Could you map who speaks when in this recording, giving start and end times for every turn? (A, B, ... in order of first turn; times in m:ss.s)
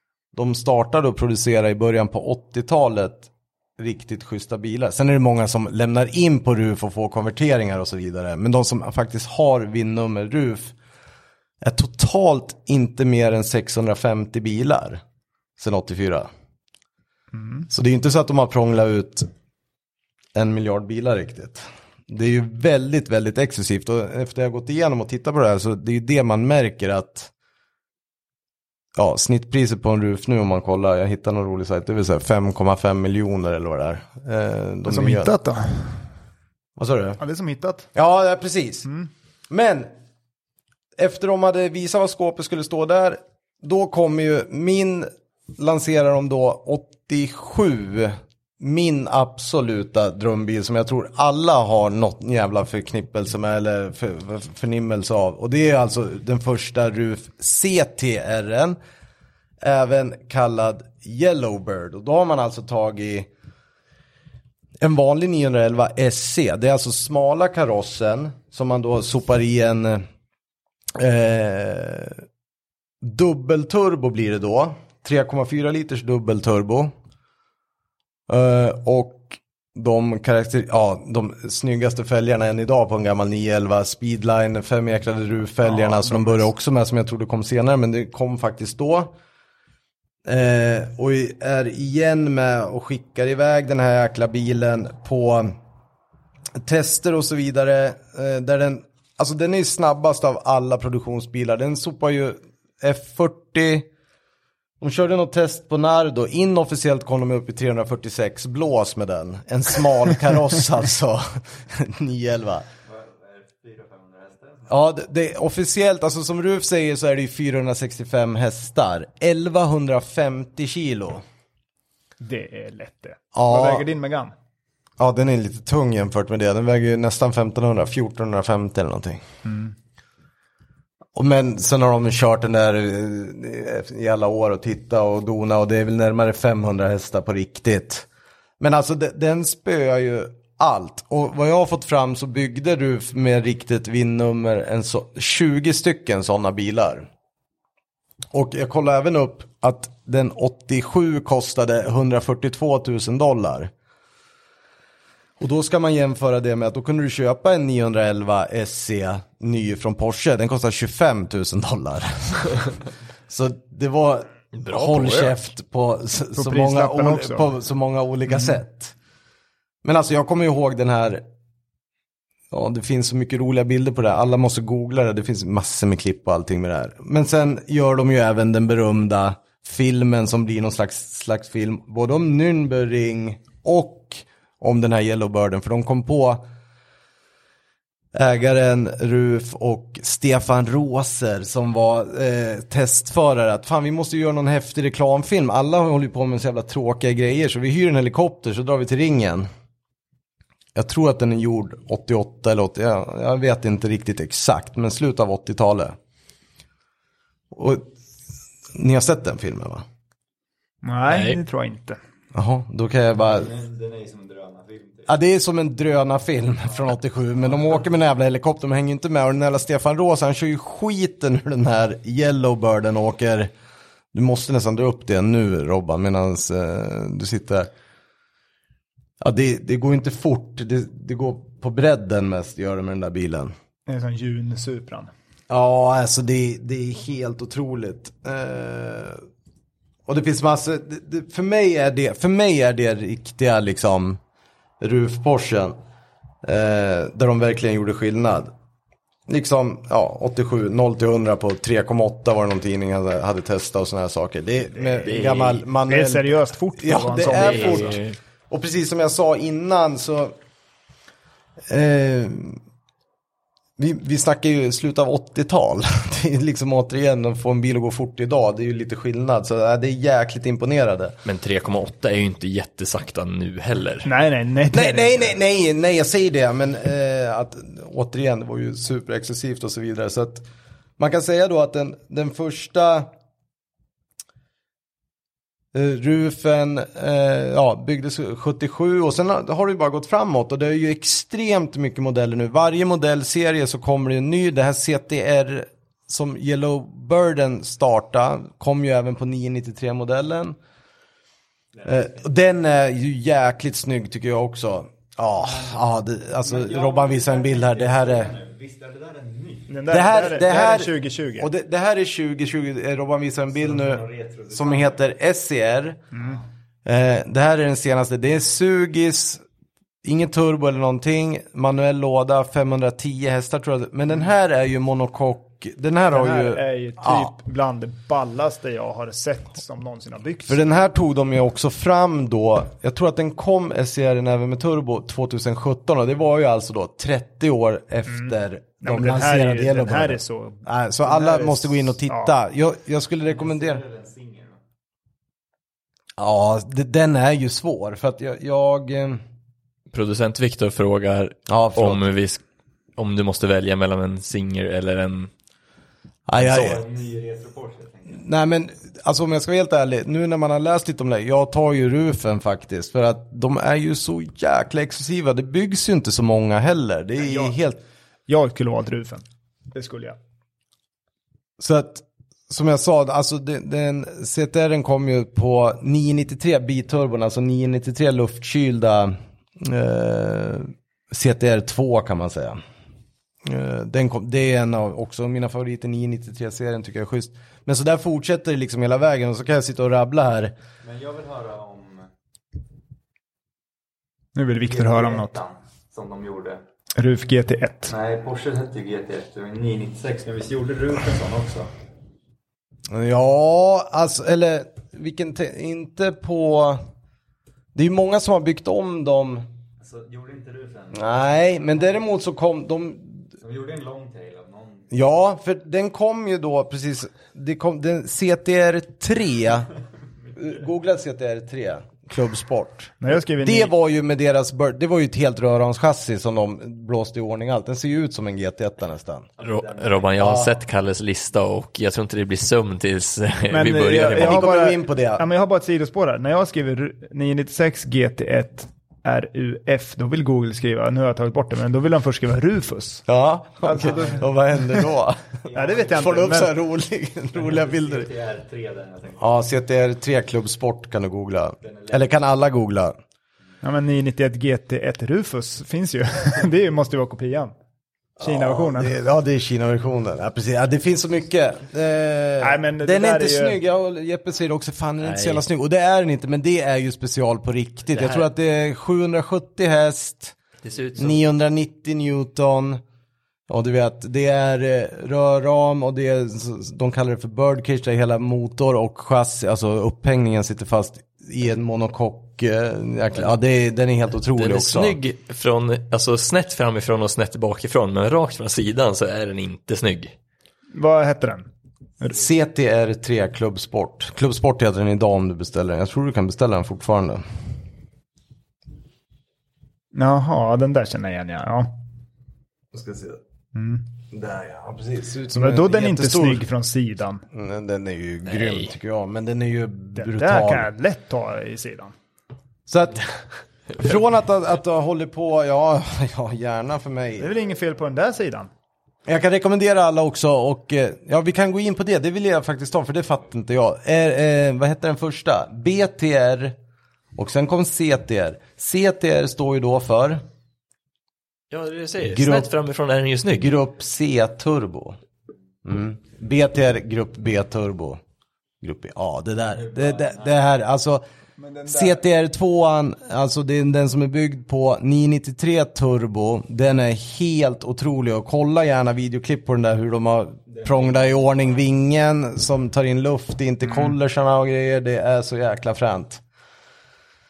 0:00.3-0:10.7 A
0:11.6-0:15.0 A
0:15.6-0:16.3 A
0:17.3-0:17.6 B
0:17.7-0:19.3 A
0:20.3-0:27.3 A
0:29.0-0:35.3 A
0:34.9-0:36.0 B
0:36.8-0:37.2 A
0:37.2-0:37.9 B
0:37.9-0:38.9 A
0:39.5-0:39.9 A
0:41.0-0:58.8 A
0:59.6-1:03.3 A
1:04.8-1:10.0 A
1:11.0-1:12.2 A
1:13.0-1:16.9 A
1:18.3-1:29.1 A
1:25.6-1:26.4 B
1:30.2-1:35.5 A
1:36.6-1:43.9 A
1:44.8-1:52.6 A
1:52.8-1:54.7 C
1:54.7-2:01.2 A
2:02.2-2:04.3 B
2:03.3-2:03.8 A
2:05.0-2:09.2 A
2:09.4-2:09.7 B
2:11.1-2:18.0 A
2:18.6-2:27.1 A
2:28.3-2:33.7 A
2:35.4-2:48.9 A
2:44.5-2:45.3 D
2:46.4-2:47.5 B
2:49.8-2:51.2 A
2:52.5-3:06.4 A
3:08.1-3:19.5 A
3:20.7-3:26.0 A
3:27.5-3:27.9 A
3:28.7-3:29.8 A
3:30.8-3:32.0 B
3:31.1-3:31.4 D
3:32.3-3:33.5 A
3:33.2-3:35.1 C
3:35.1-3:43.5 A
3:44.1-3:47.7 A
3:49.2-3:53.5 A
3:53.9-3:55.1 B
3:55.5-3:59.2 A
4:00.1-4:04.2 A
4:04.8-4:05.7 A
4:06.4-4:08.5 A
4:09.3-4:20.3 A
4:15.0-4:15.6 D
4:15.9-4:17.9 B
4:17.1-4:18.2 D
4:21.7-4:22.6 A
4:23.8-4:31.2 A
4:31.2-4:34.1 D
4:34.0-4:35.3 B
4:34.7-4:40.4 A
4:41.0-4:43.1 A
4:45.7-5:00.6 A
5:01.8-5:08.3 A
5:05.4-5:05.8 C
5:06.4-5:09.8 C
5:09.7-5:11.5 B
5:09.9-5:16.0 A
5:13.5-5:15.0 C
5:16.1-5:16.4 B
5:16.8-5:19.4 A
5:20.0-5:27.3 A
5:26.1-5:30.6 B
5:30.5-5:43.8 A
5:38.1-5:42.3 B
5:43.3-5:44.6 C
5:46.2-5:49.2 A
5:49.9-5:52.4 D
5:51.5-5:52.0 A
5:53.0-5:55.3 D
5:56.3-5:56.8 A
5:56.4-5:56.6 D
5:56.4-5:58.2 C
5:58.1-6:07.8 A
6:07.2-6:07.5 B
6:08.3-6:09.2 B
6:09.7-6:10.2 B
6:11.6-6:22.6 A
6:23.4-6:30.5 A
6:30.8-6:32.1 C
6:34.3-6:35.3 B
6:34.6-6:36.6 C
6:37.0-6:37.9 B
6:37.9-6:41.7 C
6:42.9-6:46.8 A
6:47.7-6:49.4 A
6:49.8-6:51.9 C
6:50.9-6:53.2 A
6:53.4-6:54.9 C
6:54.9-6:59.7 A
7:00.4-7:09.3 A
7:03.0-7:03.7 B
7:09.4-7:10.4 C
7:09.4-7:14.4 D
7:10.2-7:10.5 A
7:13.5-7:23.0 B
7:13.9-7:15.2 A
7:23.1-7:28.1 A
7:23.6-7:24.3 B
7:23.8-7:24.2 C
7:25.4-7:26.4 C
7:25.5-7:26.5 B
7:27.3-7:29.3 C
7:29.2-7:32.9 A
7:31.6-7:32.1 C
7:33.6-7:37.5 B
7:38.2-7:50.4 A
7:38.2-7:38.9 B
7:42.4-7:43.6 B
7:45.0-7:45.4 D
7:47.9-7:48.2 D
7:50.6-7:51.1 D
7:50.9-7:52.8 A
7:53.5-8:05.0 A
8:04.4-8:10.1 D
8:10.7-8:11.5 B
8:12.0-8:17.2 A
8:19.9-8:21.8 B
8:22.7-8:23.2 A
8:23.5-8:23.8 B
8:24.1-8:26.4 A
8:25.3-8:27.2 B
8:27.3-8:30.7 A
8:28.3-8:28.7 D
8:30.0-8:31.9 B
8:32.7-8:33.1 A
8:33.8-8:37.3 A
8:37.2-8:38.5 B
8:39.0-8:46.5 A
8:47.2-8:50.2 A
8:51.5-8:53.5 D
8:52.1-8:52.5 A
8:53.4-8:55.0 A
8:55.6-8:58.0 A
8:58.6-9:01.0 A
8:59.6-9:00.3 C
9:01.4-9:02.0 B
9:01.6-9:16.2 A
9:10.5-9:11.5 C